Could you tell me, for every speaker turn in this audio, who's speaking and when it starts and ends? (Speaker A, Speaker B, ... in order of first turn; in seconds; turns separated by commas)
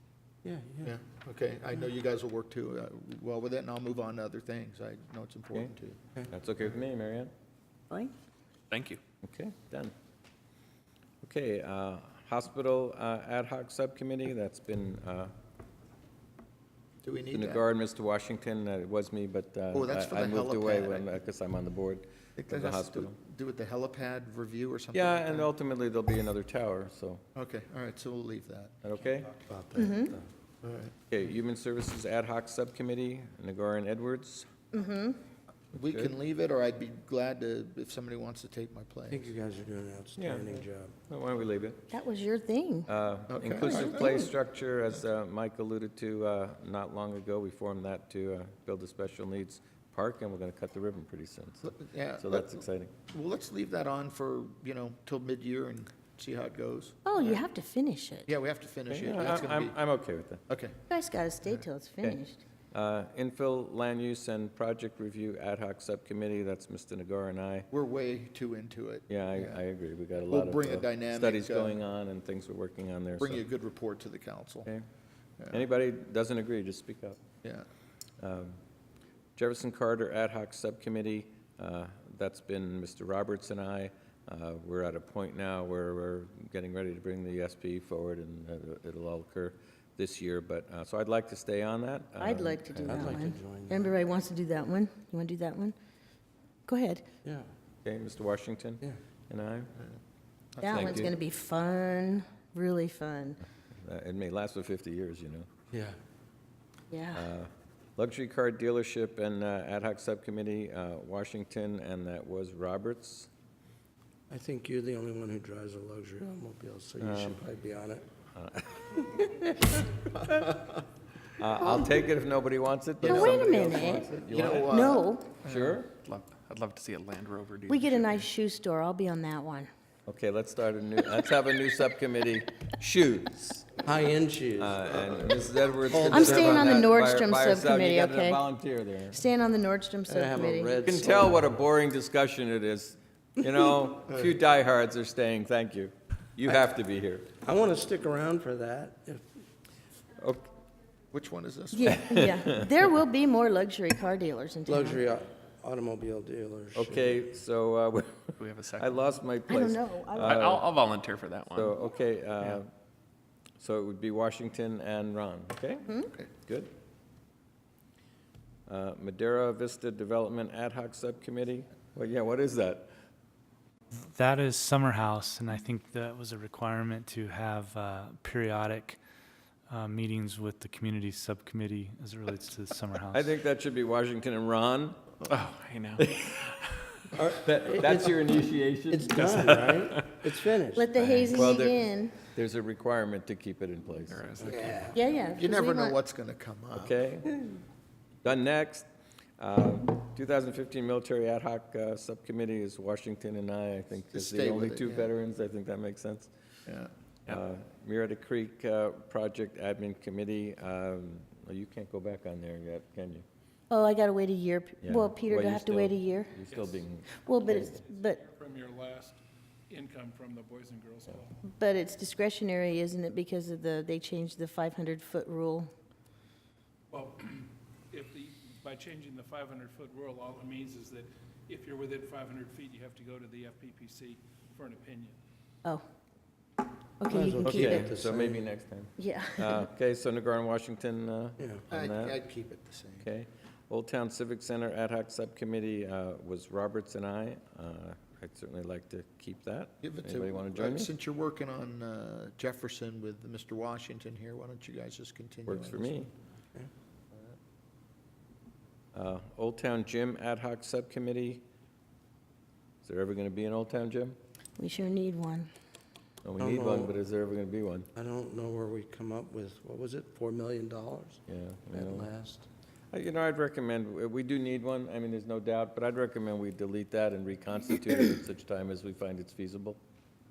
Speaker A: 0.4-0.9, Speaker B: 0.8-6.0, Speaker C: 6.3-7.3, Speaker D: 8.7-9.0, Speaker C: 9.2-9.9, Speaker C: 11.2-15.3, Speaker B: 17.0-17.6, Speaker C: 17.3-23.2, Speaker B: 19.7-21.1, Speaker B: 22.4-25.5, Speaker C: 24.9-27.2, Speaker B: 27.3-28.8, Speaker C: 28.8-29.3, Speaker A: 29.3-30.2, Speaker E: 29.7-30.1, Speaker B: 30.6-30.9, Speaker C: 31.1-34.5, Speaker E: 34.7-35.2, Speaker B: 35.7-39.3, Speaker C: 35.8-36.1, Speaker A: 39.1-40.9, Speaker C: 40.2-41.9, Speaker E: 41.9-42.9, Speaker C: 42.9-52.9, Speaker B: 43.3-44.3, Speaker E: 43.4-44.3, Speaker B: 51.6-57.4, Speaker E: 57.0-58.3, Speaker B: 58.3-59.8, Speaker C: 58.9-60.4, Speaker B: 60.5-60.8, Speaker E: 60.9-62.4, Speaker C: 62.0-67.7, Speaker B: 67.7-69.6, Speaker C: 69.1-73.4, Speaker B: 70.3-71.8, Speaker B: 73.2-74.7, Speaker C: 75.5-77.2, Speaker C: 78.2-78.6, Speaker C: 79.3-93.2, Speaker E: 92.2-95.7, Speaker A: 92.8-93.9, Speaker E: 96.7-97.0, Speaker C: 97.8-99.7, Speaker B: 100.5-101.1, Speaker E: 100.6-103.4, Speaker C: 100.6-101.1, Speaker C: 103.8-105.5, Speaker A: 105.7-106.0, Speaker E: 106.9-107.3, Speaker C: 107.1-113.3, Speaker A: 114.3-118.0, Speaker C: 117.0-117.5, Speaker C: 118.3-119.2, Speaker A: 119.0-120.5, Speaker C: 121.4-124.9, Speaker E: 123.0-125.3, Speaker B: 123.0-125.8, Speaker C: 125.4-125.9, Speaker D: 125.9-128.3, Speaker E: 127.7-129.7, Speaker C: 130.1-133.8, Speaker A: 133.8-135.3, Speaker C: 134.6-139.2, Speaker A: 135.9-136.8, Speaker E: 136.1-138.4, Speaker E: 139.1-140.8, Speaker A: 140.1-141.5, Speaker C: 140.8-147.3, Speaker A: 147.4-149.4, Speaker C: 150.1-150.5, Speaker B: 151.1-152.2, Speaker E: 151.7-155.0, Speaker C: 152.1-152.7, Speaker A: 154.7-157.2, Speaker C: 156.7-160.7, Speaker D: 158.4-159.2, Speaker E: 159.5-160.4, Speaker D: 160.2-161.8, Speaker C: 161.5-162.7, Speaker C: 163.6-165.8, Speaker C: 166.4-166.7, Speaker C: 168.7-172.9, Speaker F: 173.9-179.0, Speaker F: 179.7-183.3, Speaker C: 183.1-185.1, Speaker D: 185.3-187.0, Speaker C: 186.0-186.5, Speaker C: 187.1-189.2, Speaker A: 187.7-188.3, Speaker A: 188.9-191.3, Speaker D: 189.1-190.2, Speaker E: 190.7-192.2, Speaker C: 191.3-194.3, Speaker D: 194.1-194.9, Speaker A: 194.4-195.0, Speaker E: 194.9-196.0, Speaker B: 195.3-197.0, Speaker C: 196.7-197.4, Speaker C: 198.2-198.9, Speaker C: 199.4-206.3, Speaker B: 204.1-205.1, Speaker B: 206.7-206.9, Speaker C: 207.3-213.2, Speaker E: 213.7-216.4, Speaker C: 214.8-217.8, Speaker G: 216.5-216.8, Speaker E: 217.2-218.2, Speaker G: 217.6-221.4, Speaker E: 221.4-225.7, Speaker G: 226.9-235.2, Speaker E: 237.0-237.9, Speaker A: 237.1-238.4, Speaker C: 237.4-242.2, Speaker E: 239.0-239.7, Speaker B: 241.7-243.1, Speaker C: 243.0-250.9, Speaker B: 249.8-256.1, Speaker C: 255.5-256.1, Speaker C: 258.9-261.4, Speaker C: 262.8-264.2, Speaker E: 264.6-265.5, Speaker C: 266.2-267.9, Speaker A: 266.4-266.9, Speaker A: 267.9-272.5, Speaker C: 271.3-272.1, Speaker C: 272.9-279.8